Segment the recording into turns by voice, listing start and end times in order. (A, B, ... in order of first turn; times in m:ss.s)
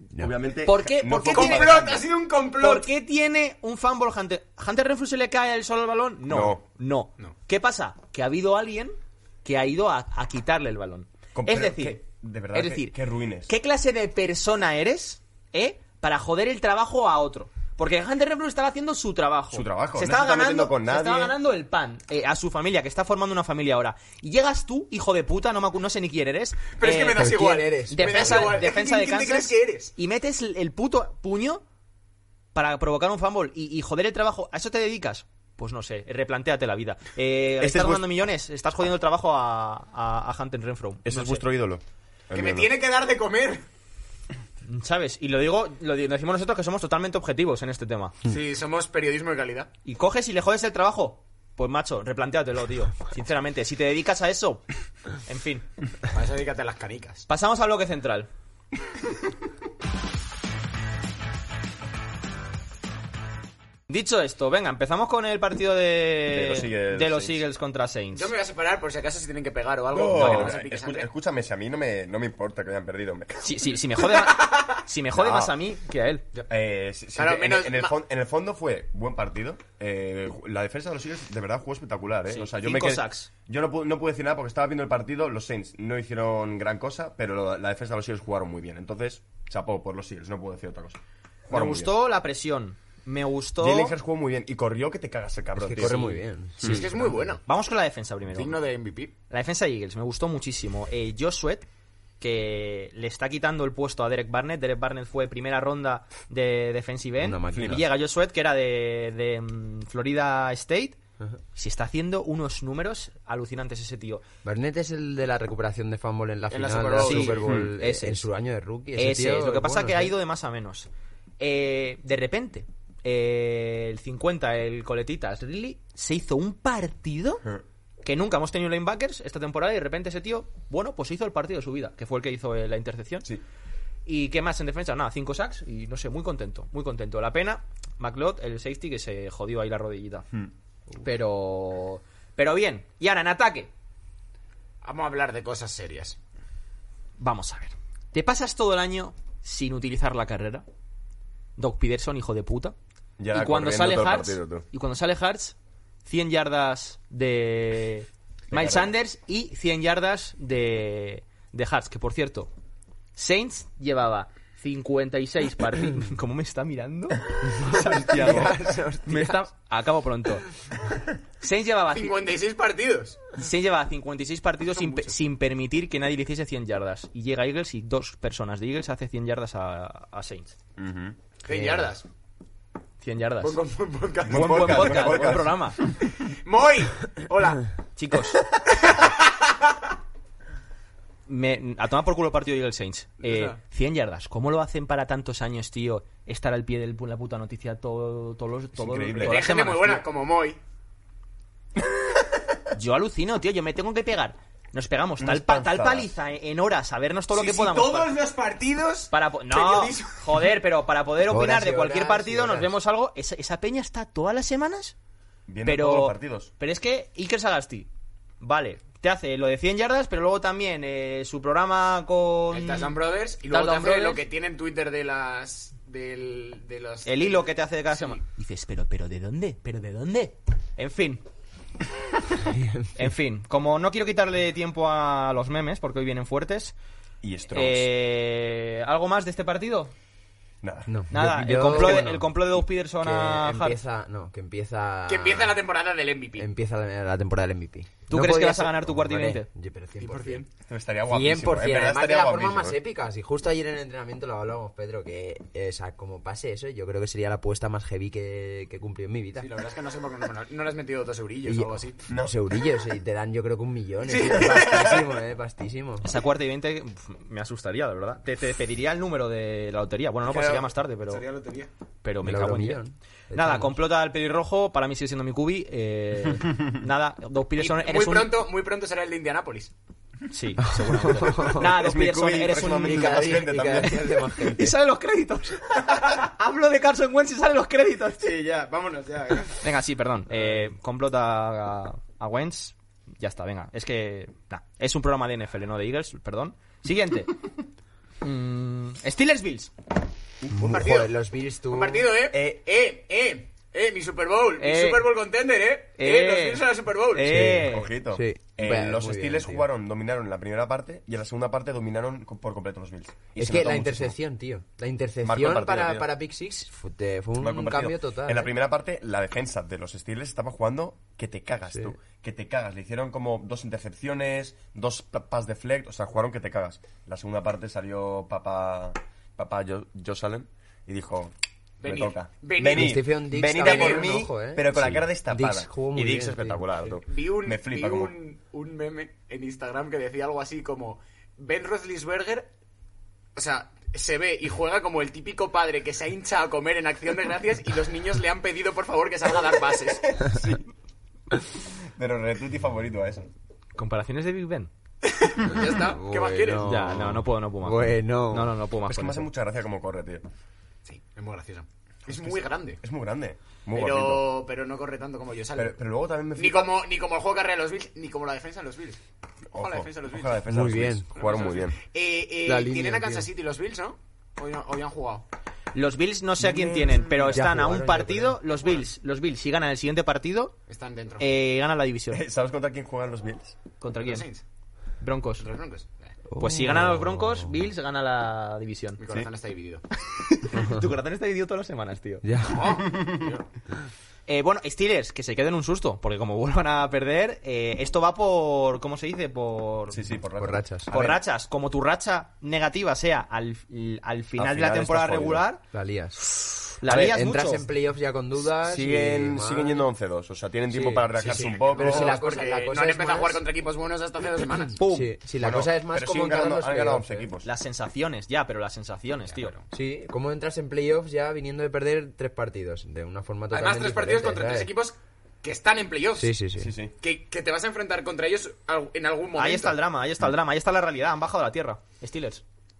0:00.2-0:02.0 A
0:00.6-0:01.8 B
0:01.3-0:02.9 C
0:02.6-0:12.0 B
0:06.3-0:06.6 A
0:11.3-0:13.5 A
0:12.5-0:12.9 B
0:13.5-0:31.6 B
0:19.5-0:21.4 A
0:26.8-0:29.9 C
0:27.1-0:28.5 D
0:32.5-0:41.4 B
0:37.6-0:38.1 A
0:41.0-0:42.7 A
0:42.3-0:43.6 C
0:44.6-0:48.1 B
0:48.2-0:49.7 C
0:49.8-0:54.6 B
0:55.2-0:55.6 B
0:56.1-0:57.2 C
0:57.3-0:58.3 B
1:03.9-1:08.3 B
1:06.3-1:07.4 A
1:08.1-1:11.1 C
1:09.9-1:13.4 A
1:10.1-1:10.5 B
1:13.4-1:16.2 B
1:14.3-1:14.6 C
1:15.1-1:15.6 A
1:16.5-1:31.9 A
1:17.1-1:17.9 C
1:22.3-1:23.3 B
1:31.5-1:33.9 B
1:33.6-1:36.8 A
1:35.6-1:37.4 D
1:36.6-1:37.4 C
1:37.4-1:38.6 B
1:38.3-1:39.1 C
1:39.3-1:41.6 B
1:42.2-1:51.0 B
1:47.2-1:47.8 D
1:47.5-1:47.8 A
1:51.5-1:54.2 B
1:54.4-2:00.1 D
1:56.5-1:57.5 C
1:57.0-1:58.2 B
1:57.5-1:57.7 A
1:59.0-2:00.9 B
2:01.4-2:07.4 B
2:08.0-2:13.3 B
2:14.0-2:20.3 B
2:21.0-2:23.7 B
2:24.8-2:26.2 C
2:27.2-2:30.6 B
2:31.6-2:32.7 B
2:33.2-2:34.6 A
2:33.3-2:42.5 B
2:38.5-2:38.9 A
2:43.2-2:50.5 B
2:47.5-2:49.4 D
2:48.2-2:48.6 A
2:51.4-2:52.1 B
2:51.9-2:53.2 C
2:53.3-3:00.5 B
2:54.7-2:55.2 C
3:00.8-3:01.2 A
3:01.4-3:02.0 C
3:01.5-3:01.9 D
3:03.0-3:03.6 B
3:03.4-3:07.7 C
3:04.2-3:05.9 A
3:04.3-3:05.8 B
3:08.0-3:08.4 B
3:08.6-3:09.7 C
3:11.3-3:20.0 B
3:13.2-3:13.6 C
3:18.8-3:19.5 A
3:19.2-3:20.6 C
3:21.8-3:22.1 A
3:22.7-3:28.1 B
3:25.2-3:26.1 A
3:27.3-3:30.5 C
3:29.1-3:34.9 B
3:31.2-3:32.7 D
3:35.5-3:36.5 A
3:35.6-3:37.9 B
3:38.4-3:42.9 B
3:42.5-3:48.2 C
3:43.5-3:44.2 B
3:47.0-3:51.2 B
3:52.4-3:52.9 D
3:52.9-3:56.7 B
3:57.2-3:57.9 A
3:57.5-3:59.9 B
4:00.6-4:00.9 A
4:00.9-4:02.3 D
4:01.1-4:03.8 B
4:01.7-4:02.0 A
4:03.0-4:05.6 D
4:05.1-4:06.4 C
4:06.4-4:10.4 D
4:08.1-4:09.5 B
4:10.0-4:10.5 C
4:10.6-4:12.8 A
4:11.1-4:19.5 D
4:19.4-4:22.0 C
4:21.4-4:26.1 D
4:24.0-4:24.8 C
4:24.4-4:25.0 A
4:26.0-4:31.2 B
4:30.3-4:31.7 C
4:32.0-4:32.8 B
4:32.2-4:33.8 D
4:33.3-4:38.3 B
4:37.6-4:39.7 C
4:40.3-4:48.3 B
4:40.6-4:41.6 D
4:41.2-4:44.2 A
4:42.8-4:44.8 D
4:48.3-4:49.6 C
4:49.6-4:57.3 B
4:58.2-4:59.7 B
5:00.4-5:00.8 A
5:00.5-5:02.1 D
5:00.6-5:01.2 C
5:01.7-5:07.4 C
5:02.3-5:02.6 A
5:04.6-5:05.1 B
5:06.0-5:07.9 B
5:07.2-5:09.6 D
5:07.6-5:14.1 A
5:13.4-5:18.5 D
5:15.2-5:16.1 A
5:17.4-5:31.3 A
5:31.8-5:33.0 C
5:31.8-5:38.2 A
5:32.6-5:37.0 D
5:33.6-5:34.2 C
5:37.0-5:42.5 C
5:43.4-5:50.1 C
5:50.2-5:50.6 A
5:51.6-5:53.3 A
5:53.8-5:54.7 B
5:55.0-5:56.7 C
5:55.4-5:58.6 D
5:56.6-5:59.3 B
5:58.9-6:00.2 A
6:00.8-6:02.8 C
6:02.1-6:04.2 A
6:03.7-6:05.8 C
6:05.5-6:06.7 A
6:06.4-6:09.0 C
6:09.5-6:11.8 A
6:09.5-6:10.5 C
6:10.5-6:11.1 D
6:11.1-6:15.2 C
6:12.4-6:13.3 D
6:15.7-6:20.5 B
6:16.5-6:17.1 A
6:16.5-6:18.4 D
6:20.7-6:21.3 C
6:21.2-6:22.2 B
6:22.1-6:23.6 A
6:23.8-6:24.2 B
6:24.0-6:24.4 C
6:25.0-6:25.5 B
6:25.4-6:26.1 C
6:26.3-6:27.6 D
6:26.4-6:29.0 B
6:29.0-6:29.8 C
6:30.1-6:32.2 B
6:30.5-6:30.8 D
6:32.2-6:32.9 D
6:32.5-6:33.4 C
6:32.8-6:33.3 A
6:34.3-6:40.0 B
6:39.9-6:41.2 A
6:40.4-6:40.9 D
6:40.9-6:45.6 B
6:44.4-6:45.4 A
6:45.7-6:46.3 D
6:46.3-6:47.7 B
6:46.8-6:49.8 D
6:48.6-6:52.2 A
6:50.7-6:53.4 D
6:51.1-6:54.8 C
6:54.8-6:55.1 B
6:54.8-6:57.3 D
6:55.4-6:57.5 A
6:57.4-6:59.5 B
6:59.3-6:59.6 C
6:59.7-7:04.7 D
7:03.5-7:06.3 C
7:06.1-7:06.7 D
7:06.6-7:06.9 A
7:07.0-7:09.8 C
7:09.4-7:12.4 B